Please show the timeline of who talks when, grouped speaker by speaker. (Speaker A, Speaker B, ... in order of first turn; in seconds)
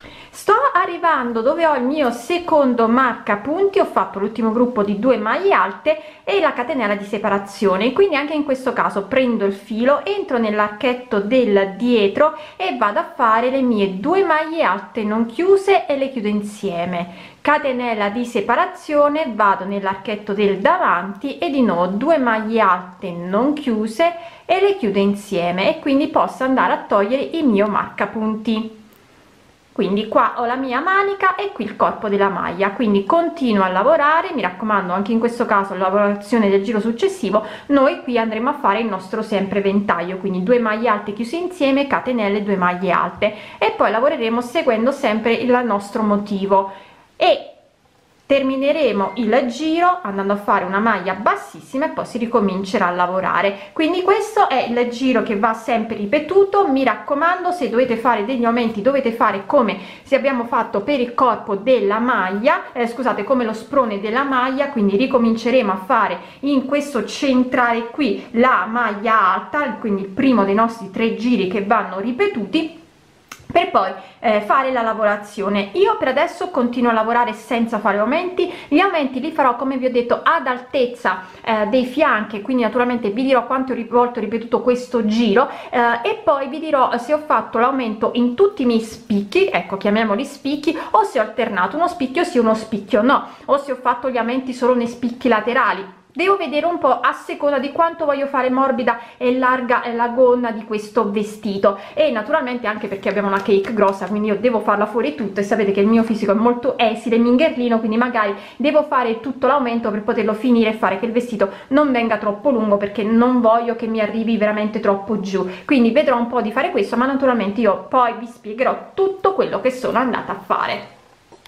Speaker A: 0.3-28.8, 29.7-47.5, 48.3-72.8, 73.5-120.9